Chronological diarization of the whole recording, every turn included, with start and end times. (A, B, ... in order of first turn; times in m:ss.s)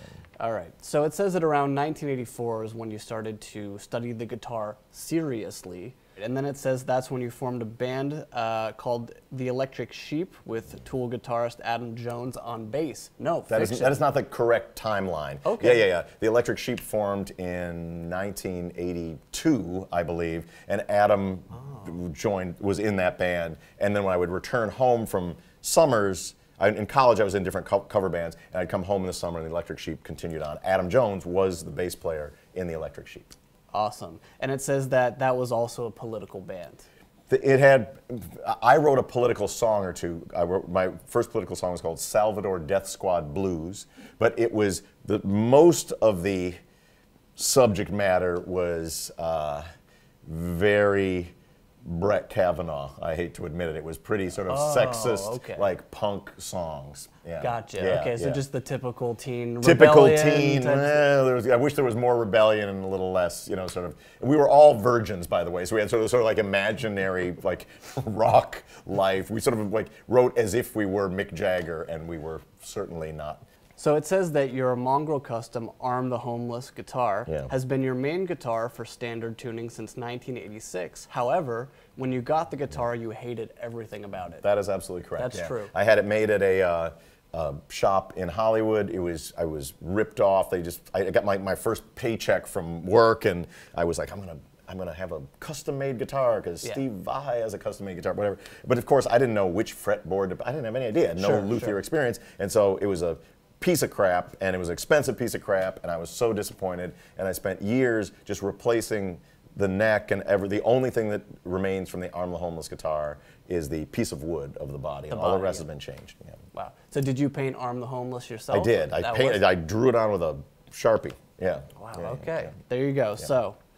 0:00.4-0:14.0 A
0:13.5-0:33.3 B
0:15.4-0:15.8 A
0:33.7-0:36.9 A
0:37.3-0:46.6 B
0:47.4-0:49.6 B
0:50.2-0:58.4 B
0:54.5-0:55.7 A
0:57.4-1:01.1 A
0:59.6-1:13.4 B
1:13.8-1:24.4 A
1:24.4-1:56.4 B
1:25.2-1:25.7 A
1:41.2-1:41.7 A
1:55.1-1:55.7 A
1:56.5-1:59.4 A
1:58.5-2:02.5 B
2:01.8-2:03.6 A